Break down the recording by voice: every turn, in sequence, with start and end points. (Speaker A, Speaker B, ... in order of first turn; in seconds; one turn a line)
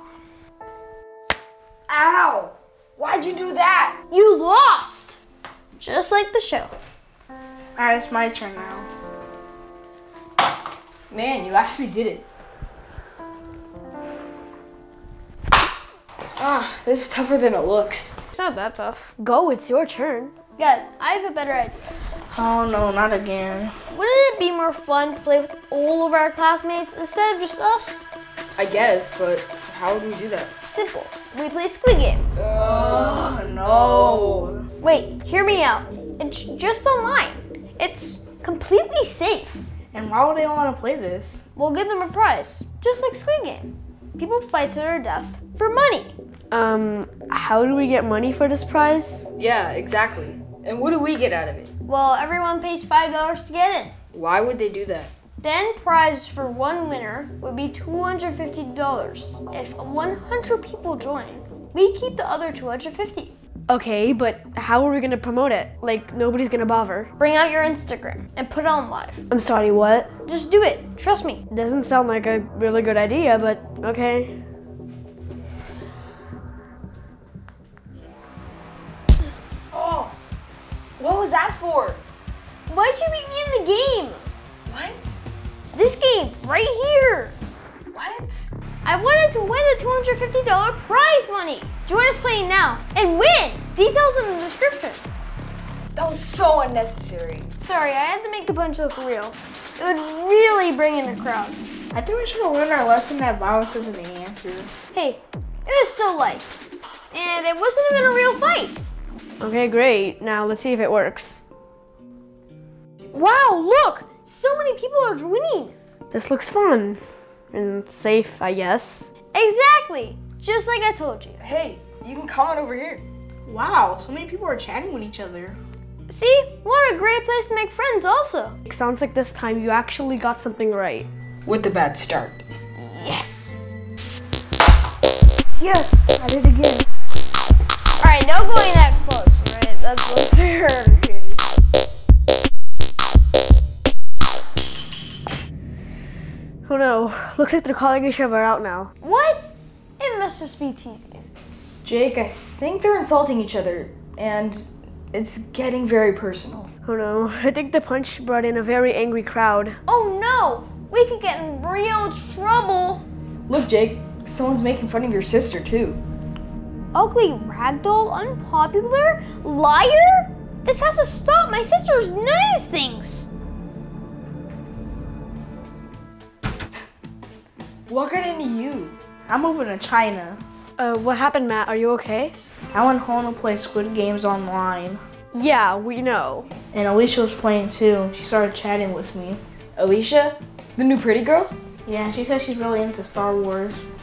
Speaker A: 1.9-4.0
Speaker B: 4.1-5.2
Speaker B: 5.8-6.7
Speaker C: 7.8-8.9
Speaker A: 11.1-12.2
Speaker A: 16.4-18.1
Speaker D: 18.4-19.1
Speaker B: 19.0-21.9
Speaker C: 22.3-23.7
Speaker B: 23.9-28.0
Speaker A: 28.6-30.5
Speaker B: 30.6-32.2
Speaker A: 32.4-34.6
Speaker C: 32.6-34.6
Speaker B: 34.8-39.6
Speaker C: 39.9-41.4
Speaker B: 41.5-46.1
Speaker D: 46.5-49.3
Speaker A: 49.3-51.7
Speaker B: 51.9-53.9
Speaker A: 54.1-55.1
Speaker B: 55.4-63.3
Speaker D: 63.7-67.0
Speaker B: 66.9-69.4
Speaker D: 69.4-70.1
Speaker B: 70.1-72.8
Speaker D: 71.6-74.3
Speaker A: 79.7-80.1
Speaker A: 81.0-82.0
Speaker B: 82.7-84.3
Speaker A: 84.7-85.2
Speaker B: 85.7-87.3
Speaker A: 87.9-88.5
Speaker B: 88.8-95.0
Speaker A: 95.9-97.5
Speaker B: 97.6-101.6
Speaker C: 101.9-104.7
Speaker B: 104.9-106.5
Speaker B: 107.1-108.8
Speaker D: 109.4-111.4
Speaker B: 113.1-115.7
Speaker D: 116.1-117.0
Speaker D: 117.5-119.1
Speaker B: 119.2-121.4
Speaker A: 121.4-123.0
Speaker C: 123.5-125.6
Speaker B: 126.1-128.6
Speaker D: 128.7-131.1
Speaker A: 131.4-132.4
Speaker B: 132.8-133.6
Speaker B: 135.6-136.8
Speaker B: 138.0-141.4
Speaker D: 146.7-148.9
Speaker B: 149.0-151.2
Speaker A: 151.8-156.7
Speaker D: 156.8-159.7
Speaker B: 159.8-163.0
Speaker A: 163.5-166.0
Speaker B: 166.9-173.3
Speaker A: 177.9-178.9
Speaker C: 179.3-180.4
Speaker D: 180.8-182.3
Speaker C: 182.7-185.0
Speaker B: 185.3-186.4
Speaker D: 186.0-186.4
Speaker C: 186.7-189.4
Speaker A: 189.8-191.5
Speaker C: 191.8-193.8